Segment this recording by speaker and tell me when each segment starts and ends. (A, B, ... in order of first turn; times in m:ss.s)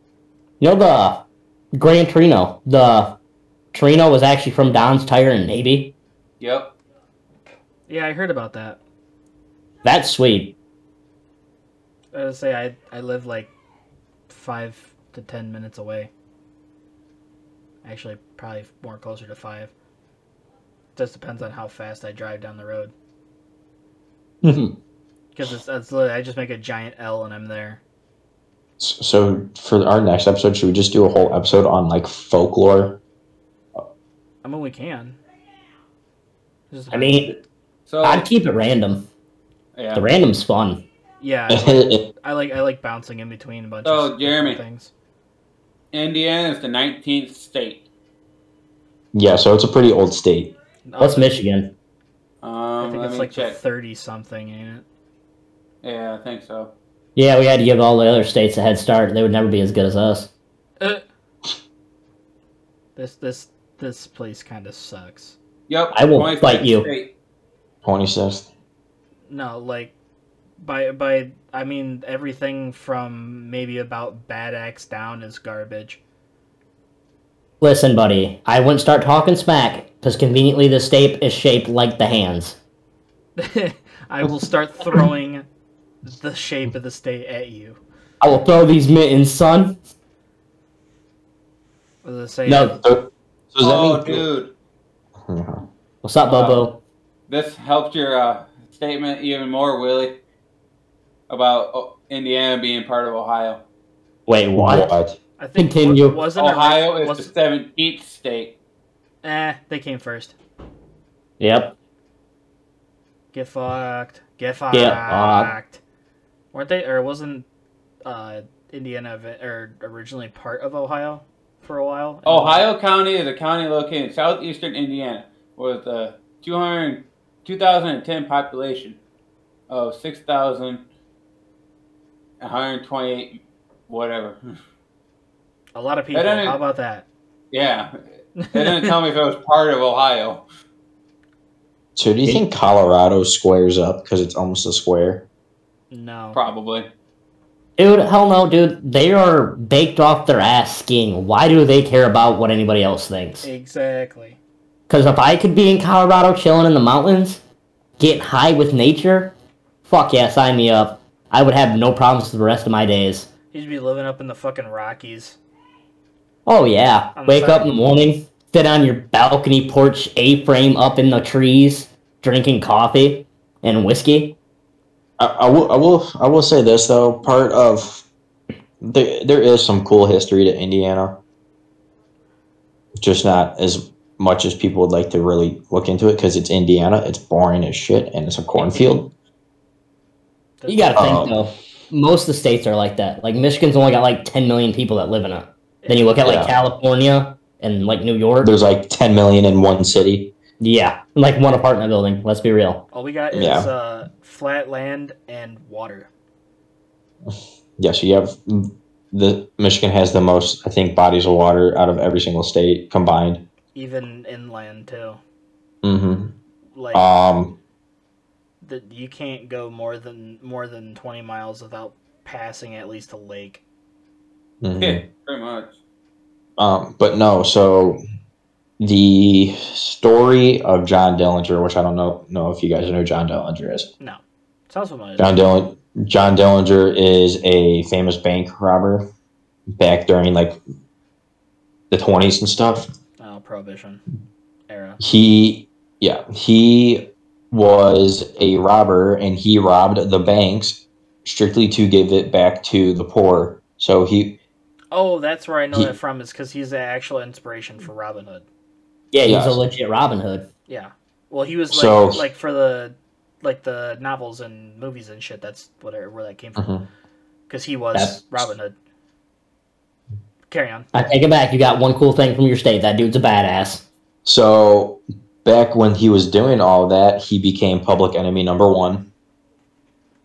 0:00.6-0:01.2 A
0:01.7-0:03.1 A
0:03.7-0:05.9 A
0:06.4-0:06.7 B
0:07.9-0:08.8 C
0:09.8-0:10.5 A
0:12.1-0:13.5 C
0:14.3-0:16.1 C
0:17.8-0:19.7 C
0:20.9-0:22.9 C
0:24.4-0:24.7 A
0:25.3-0:27.8 C
0:28.8-0:32.9 D
0:34.4-0:35.2 C
0:36.7-0:37.3 C
0:36.9-0:37.3 A
0:37.9-0:38.2 B
0:38.0-0:39.0 A
0:39.7-0:40.0 B
0:39.9-0:40.8 A
0:41.2-0:44.9 C
0:41.5-0:42.0 D
0:43.8-0:44.6 B
0:45.9-0:47.8 B
0:49.1-0:50.5 D
0:50.9-0:51.3 C
0:51.0-0:51.7 A
0:52.4-0:53.6 B
0:52.8-0:54.8 C
0:55.8-0:56.7 B
0:57.2-1:00.3 A
1:03.0-1:05.4 C
1:05.7-1:07.1 B
1:05.9-1:06.9 A
1:07.8-1:08.4 D
1:09.3-1:09.9 C
1:10.6-1:16.0 C
1:17.6-1:22.6 A
1:23.4-1:25.4 C
1:26.0-1:27.8 C
1:28.2-1:29.7 A
1:32.0-1:32.8 C
1:32.5-1:32.8 A
1:32.8-1:34.2 D
1:33.6-1:34.5 B
1:35.2-1:35.6 D
1:36.0-1:36.7 A
1:36.3-1:36.6 B
1:37.3-1:40.1 B
1:41.3-1:43.6 B
1:44.3-1:44.9 A
1:44.5-1:45.2 D
1:45.4-1:47.3 C
1:45.6-1:46.2 A
1:46.4-1:48.5 B
1:49.2-1:50.4 C
1:51.4-1:51.7 A
1:53.3-1:55.8 C
1:54.7-1:55.5 A
1:56.5-1:57.5 C
1:58.0-2:02.6 C
2:02.2-2:09.0 B
2:09.7-2:10.8 B
2:12.4-2:14.5 B
2:15.7-2:17.0 C
2:16.1-2:16.6 B
2:17.5-2:17.9 B
2:18.4-2:18.9 C
2:18.5-2:20.4 B
2:22.0-2:25.2 D
2:25.9-2:26.4 C
2:26.3-2:26.9 B
2:27.8-2:33.5 A
2:33.4-2:34.4 C
2:34.9-2:37.4 A
2:38.0-2:39.3 A
2:39.8-2:43.3 A
2:43.5-2:45.4 C
2:46.4-2:54.3 A
2:47.2-2:47.7 C
2:55.2-2:58.0 D
2:58.8-3:01.1 D
3:03.0-3:09.1 D
3:10.6-3:11.3 C
3:10.7-3:18.5 A
3:10.9-3:11.3 D
3:15.8-3:16.3 C
3:16.2-3:16.5 D
3:18.4-3:20.2 D
3:20.6-3:22.8 A
3:22.9-3:26.1 C
3:23.3-3:23.7 D
3:27.3-3:33.4 D
3:33.7-3:35.2 C
3:35.8-3:36.3 D
3:36.7-3:37.0 C
3:36.9-3:37.5 D
3:38.6-3:43.6 C
3:44.6-3:45.0 D
3:44.8-3:45.8 B
3:46.6-3:48.0 D
3:48.8-3:53.8 D
3:54.0-3:55.4 C
3:55.2-3:59.0 D
3:59.8-4:00.5 D
4:01.9-4:02.9 D
4:03.2-4:04.0 C
4:04.7-4:05.0 C
4:05.0-4:14.3 D
4:14.9-4:18.4 C
4:19.1-4:20.4 A
4:19.2-4:19.6 D
4:20.7-4:26.8 C
4:21.7-4:22.2 D
4:26.6-4:26.8 D
4:27.5-4:28.7 C
4:27.9-4:28.4 A
4:30.5-4:30.9 C
4:30.9-4:33.8 A
4:34.2-4:39.0 D